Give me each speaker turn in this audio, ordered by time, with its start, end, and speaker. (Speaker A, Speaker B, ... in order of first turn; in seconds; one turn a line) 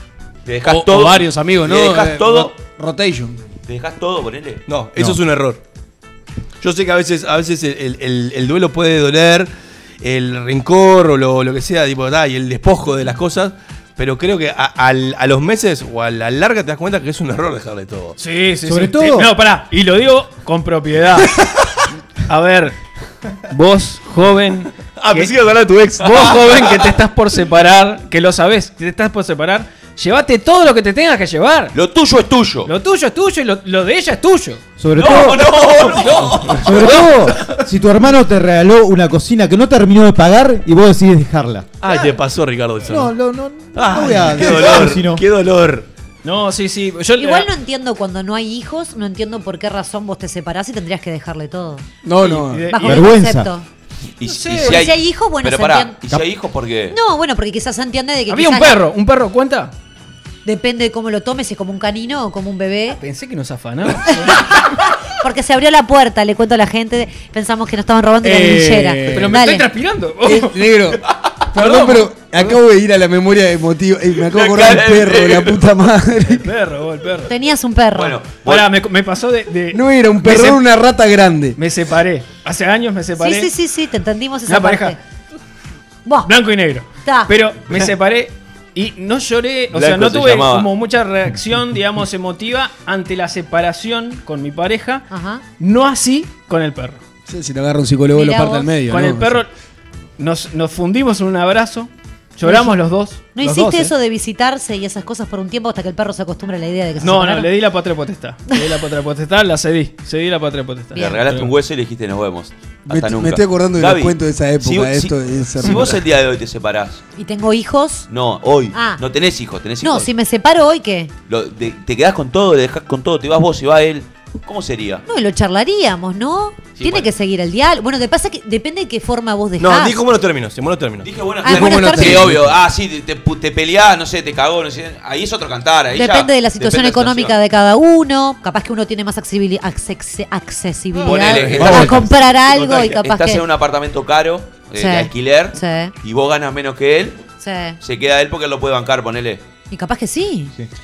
Speaker A: 0.5-2.6
Speaker B: 0.7-3.4
Speaker A: 3.7-4.6
Speaker C: 4.7-5.6
Speaker C: 6.6-9.5
Speaker C: 10.0-18.2
Speaker D: 18.2-21.4
Speaker E: 18.6-19.3
Speaker D: 22.3-22.8
Speaker D: 23.5-25.4
Speaker C: 25.0-26.9
Speaker D: 26.0-31.8
Speaker A: 31.7-32.7
Speaker D: 32.7-34.6
Speaker E: 34.8-35.7
Speaker A: 35.0-37.1
Speaker D: 36.1-36.5
Speaker E: 36.5-41.7
Speaker C: 41.8-43.1
Speaker D: 41.9-42.1
Speaker E: 42.9-45.2
Speaker C: 43.8-45.9
Speaker D: 46.2-47.5
Speaker F: 47.2-51.9
Speaker B: 52.0-52.7
Speaker D: 52.2-53.1
Speaker F: 52.7-53.7
Speaker E: 52.8-53.5
Speaker A: 54.2-57.0
Speaker D: 54.2-54.8
Speaker F: 54.6-56.0
Speaker F: 56.9-58.8
Speaker D: 58.3-59.7
Speaker F: 60.5-63.0
Speaker D: 63.0-64.5
Speaker F: 64.1-69.7
Speaker B: 68.2-69.3
Speaker D: 69.1-70.6
Speaker B: 70.2-76.5
Speaker D: 71.6-71.9
Speaker A: 74.3-75.7
Speaker D: 76.3-77.3
Speaker F: 77.3-78.2
Speaker A: 77.9-78.7
Speaker D: 78.4-80.6
Speaker B: 79.7-81.6
Speaker D: 81.6-83.5
Speaker F: 83.2-85.0
Speaker D: 84.5-85.0
Speaker D: 86.2-95.1
Speaker F: 87.0-87.3
Speaker A: 89.7-90.7
Speaker F: 95.1-95.4
Speaker D: 95.6-97.0
Speaker B: 97.3-99.4
Speaker F: 98.1-98.7
Speaker D: 98.9-99.5
Speaker D: 100.2-103.9
Speaker F: 102.4-102.7
Speaker F: 103.3-107.5
Speaker B: 103.4-103.8
Speaker D: 107.0-111.5
Speaker F: 110.9-111.2
Speaker A: 111.0-117.0
Speaker B: 112.9-116.0
Speaker F: 117.2-118.1
Speaker A: 118.1-120.1
Speaker F: 118.7-119.0
Speaker F: 119.8-121.1
Speaker A: 121.3-125.0
Speaker F: 125.1-130.0
Speaker A: 126.8-127.1
Speaker C: 129.6-131.1
Speaker A: 131.0-137.4
Speaker F: 131.4-132.3
Speaker B: 131.5-132.5
Speaker F: 135.9-143.4
Speaker D: 140.9-141.3
Speaker A: 141.0-147.2
Speaker C: 141.3-141.7
Speaker E: 141.6-142.0
Speaker F: 144.8-145.9
Speaker F: 147.4-147.8
Speaker A: 147.8-149.4
Speaker F: 149.7-150.5